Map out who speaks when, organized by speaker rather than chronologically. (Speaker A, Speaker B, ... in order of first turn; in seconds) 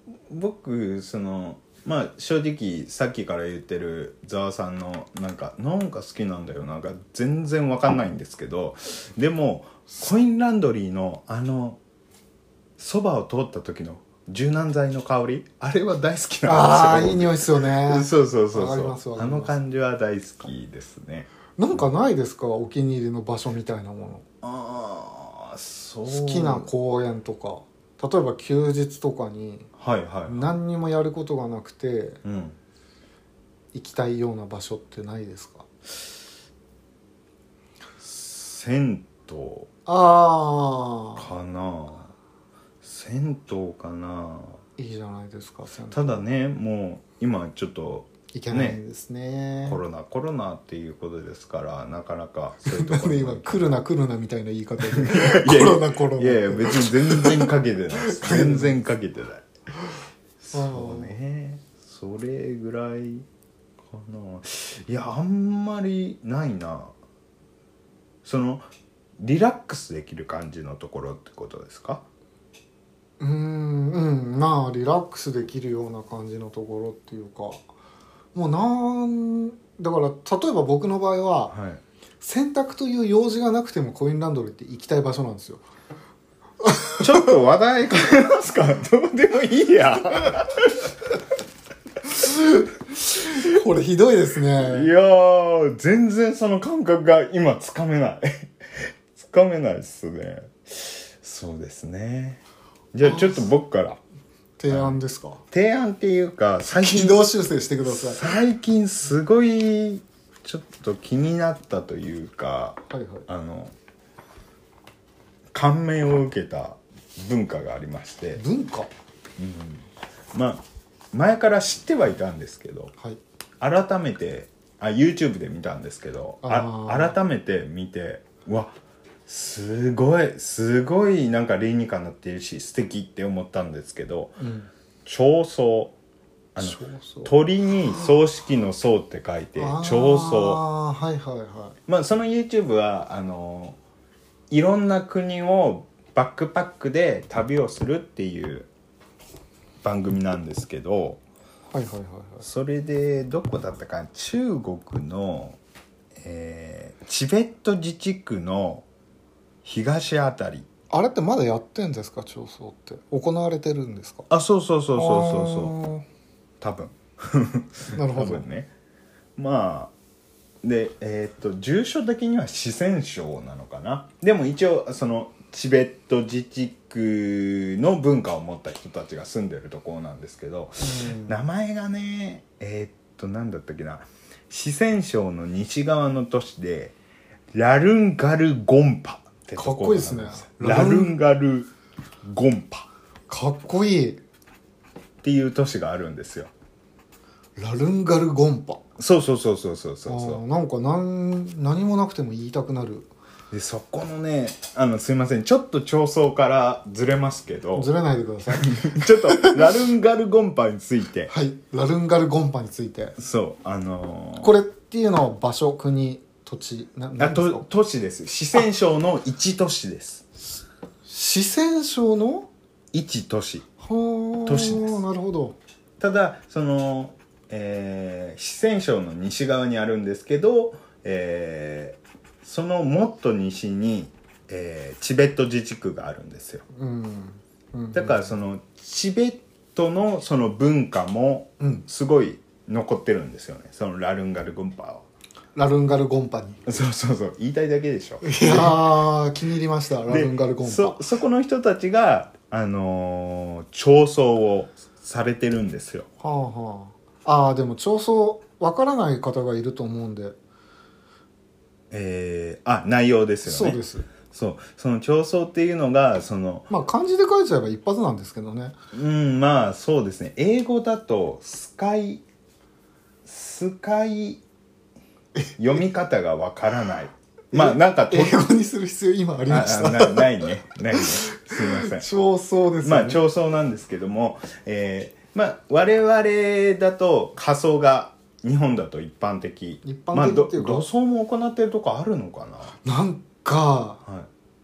Speaker A: 0.3-11.8, 12.8-21.3, 24.4-26.7, 29.8-30.4, 32.2-32.6, 38.0-39.7, 41.1-42.1, 42.8-44.6, 45.9-48.8, 49.6-53.8, 54.9-59.5, 60.4-63.2, 63.8-66.9, 68.2-68.7, 69.2-72.0, 81.5-81.8, 87.0-90.9, 94.6-102.4, 102.9-104.0, 104.7-105.0, 105.5-107.3, 107.8-113.7, 115.5-118.4, 119.4-122.9, 123.6-128.8, 129.2-134.4, 135.1-135.9, 136.6-140.6, 141.9-143.8, 144.5-148.7, 149.8-151.2, 152.4-155.6, 156.2-158.9, 159.6-160.7, 164.3-165.7, 166.6-168.7, 169.4-169.9, 170.6-186.9, 187.5-191.7, 192.2-192.9, 195.2-196.5, 199.0-200.4, 203.5-207.9, 208.6-211.3, 213.2-214.5, 217.2-220.3, 222.9-223.7, 224.4-225.0, 226.0-236.6, 237.9-245.1, 246.7-248.8, 250.1-256.1, 261.9-266.7, 268.9-272.2, 273.2-274.4, 275.6-278.4, 279.5-282.1, 282.8-292.7
Speaker B: 16.4-19.5, 21.6-24.2, 26.1-29.7, 30.3-32.2, 33.7-35.7, 39.9-41.3, 44.8-46.2, 48.3-49.8, 52.6-58.8, 60.5-61.1, 73.2-77.6, 78.3-81.5, 82.2-85.6, 86.6-87.3, 92.2-94.9, 103.0-103.5, 104.6-105.4, 106.8-108.3, 112.9-113.2, 118.4-118.9, 126.4-127.2, 134.4-134.7, 136.6-137.3, 139.6-141.8, 151.7-152.4, 160.9-164.3, 164.9-166.0, 167.9-168.4, 180.8-181.4, 189.6-191.1, 193.3-194.2, 197.6-198.8, 200.1-203.1, 207.7-209.7, 211.3-213.1, 214.4-217.7, 221.1-222.5, 223.8-225.6, 236.7-238.3, 241.6-241.8, 245.6-246.7, 248.2-251.0, 256.2-260.4, 263.4-264.1, 266.7-268.7, 277.5-283.2, 289.8-290.9, 292.8-294.0